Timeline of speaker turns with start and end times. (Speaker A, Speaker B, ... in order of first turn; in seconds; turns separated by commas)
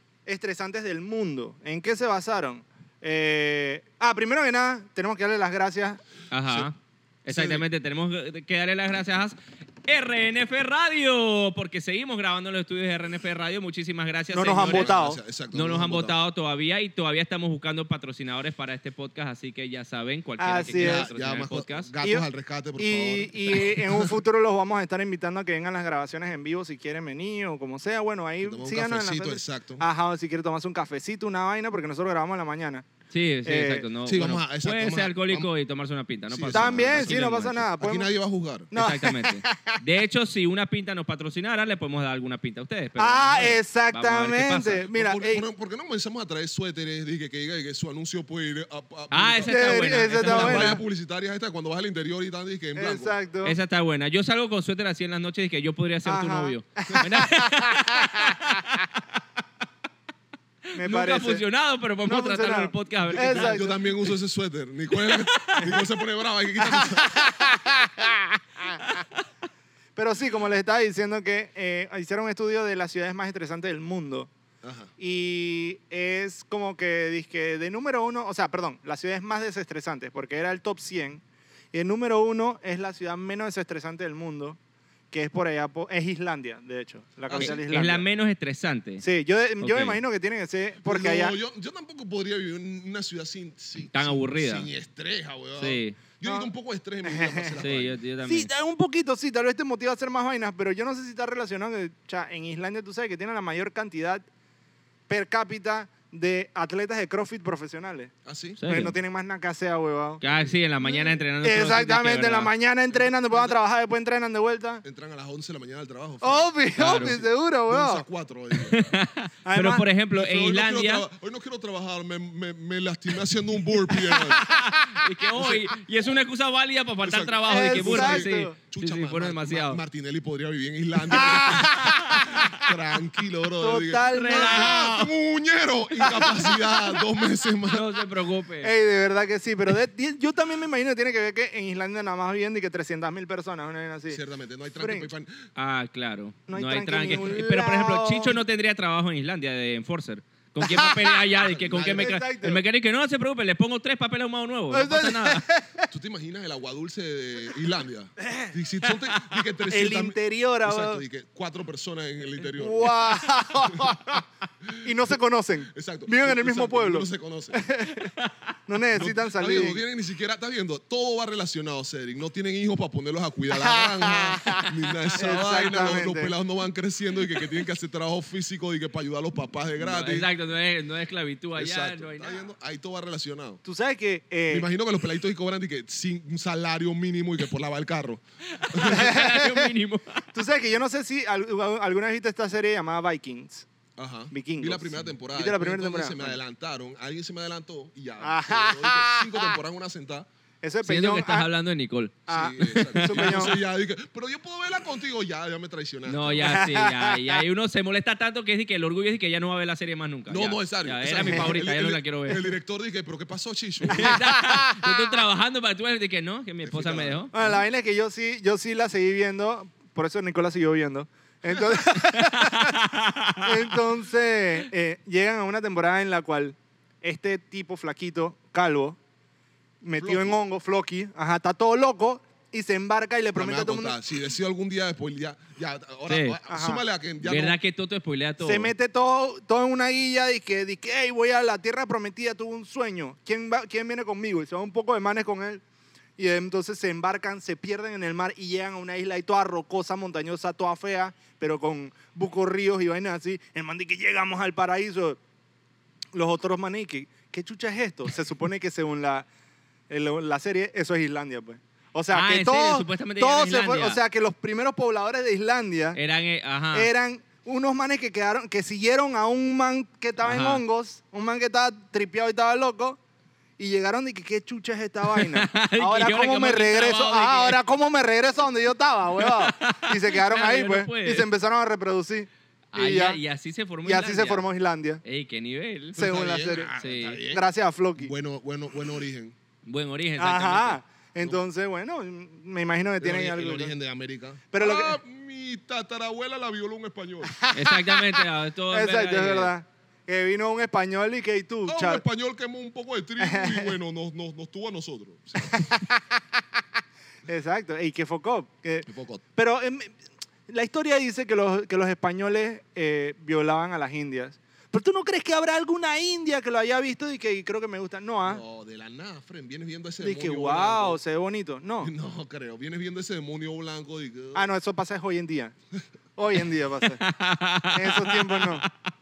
Speaker A: 0.2-6.0, Speaker B: 6.3-15.0, Speaker C: 7.3-7.6, Speaker A: 14.3-15.2, Speaker C: 14.6-16.2, Speaker B: 15.5-21.9, Speaker A: 20.4-21.1, Speaker C: 20.8-24.1, Speaker A: 22.8-32.9, Speaker C: 28.4-29.8, Speaker B: 33.1-37.6, Speaker A: 33.4-33.8, Speaker C: 34.0-35.5, Speaker C: 36.3-38.7, Speaker A: 36.5-38.1, Speaker A: 38.7-39.8, Speaker B: 38.7-44.8, Speaker A: 43.0-45.4, Speaker C: 44.9-53.1, Speaker B: 49.1-50.8, Speaker A: 49.5-50.8, Speaker A: 52.8-53.5, Speaker B: 53.4-59.0, Speaker A: 56.0-58.6, Speaker A: 60.7-61.4, Speaker B: 60.7-63.6, Speaker A: 62.0-63.8, Speaker C: 63.1-67.3, Speaker B: 65.0-65.8, Speaker A: 66.6-68.8, Speaker A: 70.0-74.3, Speaker C: 74.6-74.9, Speaker A: 75.0-84.6, Speaker A: 85.1-88.0, Speaker C: 87.3-87.6, Speaker B: 87.4-89.0, Speaker A: 89.0-91.3, Speaker B: 89.6-90.0, Speaker C: 90.8-98.0, Speaker B: 93.9-94.7, Speaker B: 95.6-96.0, Speaker A: 96.2-96.5, Speaker A: 97.0-97.6, Speaker B: 97.6-98.5, Speaker A: 98.2-104.2, Speaker A: 105.1-108.1, Speaker C: 108.2-108.6, Speaker B: 108.6-108.9, Speaker A: 108.7-110.2, Speaker B: 110.2-112.5, Speaker A: 110.8-114.8, Speaker C: 112.9-113.6, Speaker C: 114.8-118.9, Speaker A: 116.2-118.0, Speaker B: 116.8-117.2, Speaker B: 118.6-121.0, Speaker A: 119.4-119.8, Speaker C: 120.1-124.5, Speaker A: 124.0-125.0, Speaker B: 124.3-129.8, Speaker C: 125.4-125.6, Speaker C: 127.0-137.9, Speaker A: 127.5-128.6, Speaker A: 131.1-132.7, Speaker B: 131.5-132.4, Speaker A: 133.6-135.1, Speaker B: 134.1-135.0, Speaker A: 136.0-137.0, Speaker B: 137.7-138.7, Speaker A: 138.6-144.2, Speaker C: 144.1-145.4, Speaker A: 144.8-145.1, Speaker B: 145.6-155.4, Speaker A: 146.5-148.4, Speaker A: 150.6-152.6, Speaker C: 151.4-152.2, Speaker A: 154.7-155.9, Speaker C: 155.9-164.0, Speaker A: 158.2-158.5, Speaker A: 159.7-161.0, Speaker A: 162.6-164.2, Speaker C: 164.6-164.9, Speaker A: 164.8-168.1, Speaker C: 165.7-167.6, Speaker A: 168.7-169.8, Speaker C: 168.9-180.3, Speaker A: 173.5-176.3, Speaker B: 179.8-182.5, Speaker C: 181.6-183.6, Speaker A: 183.6-184.7, Speaker C: 184.5-189.1, Speaker B: 188.5-190.2, Speaker A: 188.8-189.7, Speaker A: 190.3-193.7, Speaker C: 194.0-200.3, Speaker A: 194.3-196.4, Speaker A: 198.2-199.6, Speaker A: 200.6-201.5, Speaker B: 200.8-203.5, Speaker A: 202.3-203.6, Speaker C: 202.3-206.7, Speaker B: 206.1-212.4, Speaker A: 206.4-207.4, Speaker C: 210.3-214.2, Speaker B: 213.9-217.3, Speaker A: 213.9-214.9, Speaker C: 216.6-217.6, Speaker A: 217.3-222.8, Speaker B: 222.1-223.7, Speaker A: 223.4-229.0, Speaker A: 229.8-233.9, Speaker C: 230.0-230.3, Speaker C: 233.3-237.6, Speaker B: 236.1-236.4, Speaker A: 236.5-236.8, Speaker B: 237.2-238.7, Speaker A: 238.4-245.6, Speaker A: 246.2-255.2, Speaker A: 256.1-259.3, Speaker A: 259.9-266.0, Speaker B: 262.1-264.0, Speaker B: 265.9-266.9, Speaker A: 266.7-273.0, Speaker B: 270.2-270.6, Speaker A: 273.6-283.2, Speaker B: 275.1-277.6, Speaker B: 279.2-281.3, Speaker B: 282.7-284.4, Speaker A: 283.8-285.0, Speaker B: 285.0-286.0, Speaker C: 285.9-287.4, Speaker A: 285.9-286.7, Speaker B: 286.8-287.2, Speaker A: 287.3-288.1, Speaker C: 288.0-289.4, Speaker B: 289.6-290.8, Speaker A: 290.2-293.7, Speaker C: 293.0-297.3, Speaker A: 294.5-295.0, Speaker A: 297.2-302.0, Speaker B: 297.5-299.5, Speaker C: 301.7-305.7, Speaker A: 303.2-303.7, Speaker A: 305.4-306.2, Speaker A: 307.2-309.9, Speaker C: 308.9-309.2, Speaker A: 310.5-318.4, Speaker C: 318.2-321.0, Speaker A: 320.0-321.9, Speaker C: 321.8-324.5, Speaker A: 324.3-325.5, Speaker A: 326.1-327.0, Speaker B: 326.8-328.7, Speaker A: 327.7-328.7